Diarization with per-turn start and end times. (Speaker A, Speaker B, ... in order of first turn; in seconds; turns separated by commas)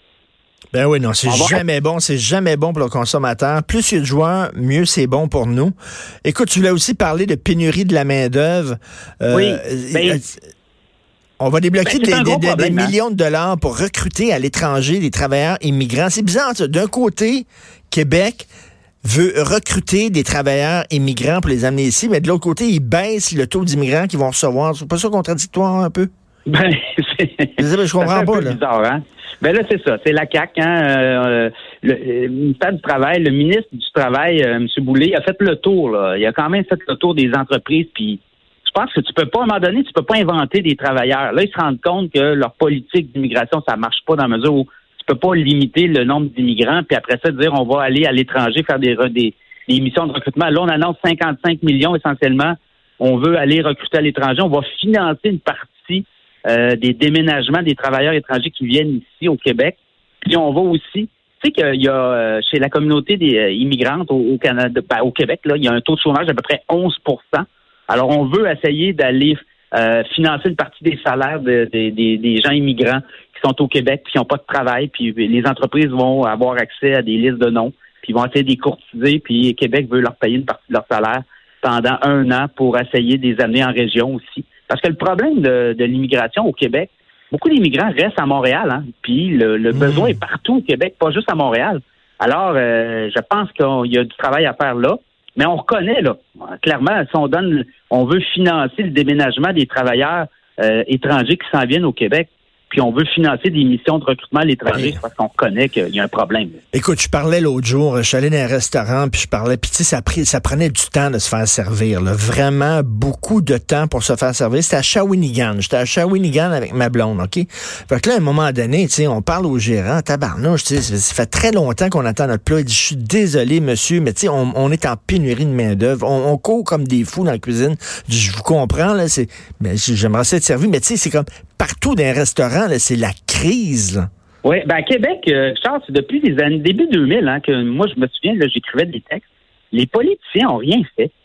Speaker A: 0.7-10.4, Speaker B: 1.3-1.6, Speaker B: 9.3-10.2, Speaker A: 11.4-18.5, Speaker B: 11.8-13.0, Speaker A: 19.0-26.1, Speaker B: 26.5-106.6, Speaker A: 27.6-28.6, Speaker A: 89.7-90.2, Speaker A: 104.7-105.0, Speaker A: 106.7-134.1, Speaker B: 134.4-141.1